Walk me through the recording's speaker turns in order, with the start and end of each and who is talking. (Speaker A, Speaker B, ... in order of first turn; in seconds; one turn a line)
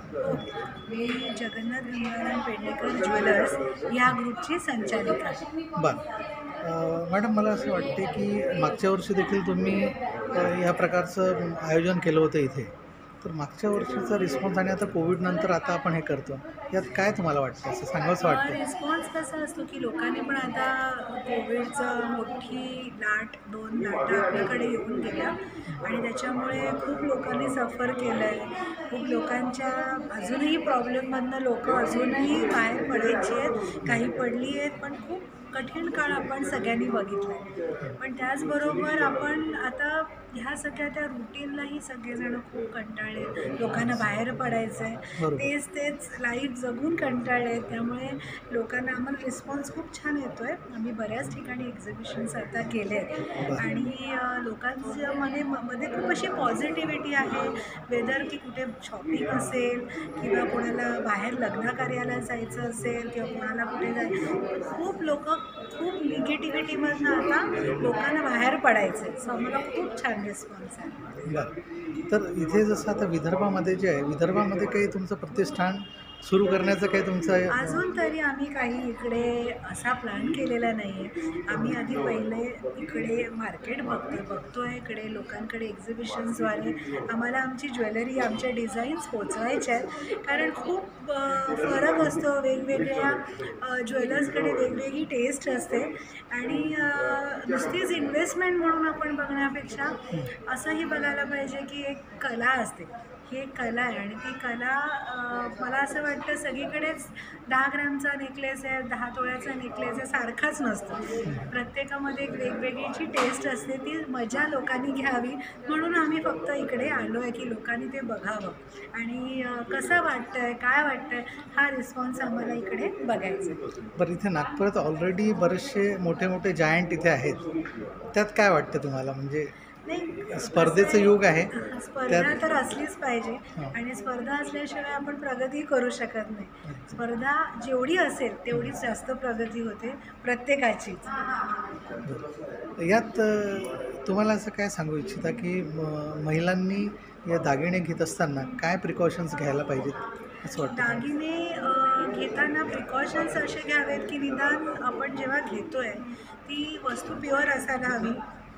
Speaker A: 0.2-5.5
Speaker B: 5.7-6.0
Speaker B: 6.6-18.6
Speaker A: 18.2-71.2
Speaker B: 45.2-45.5
Speaker B: 72.1-77.8
Speaker A: 77.5-123.6
Speaker B: 124.0-127.4
Speaker B: 128.1-129.5
Speaker A: 129.8-141.5
Speaker B: 130.3-131.5
Speaker B: 132.1-132.4
Speaker B: 136.6-137.0
Speaker B: 142.8-151.1
Speaker A: 150.6-158.2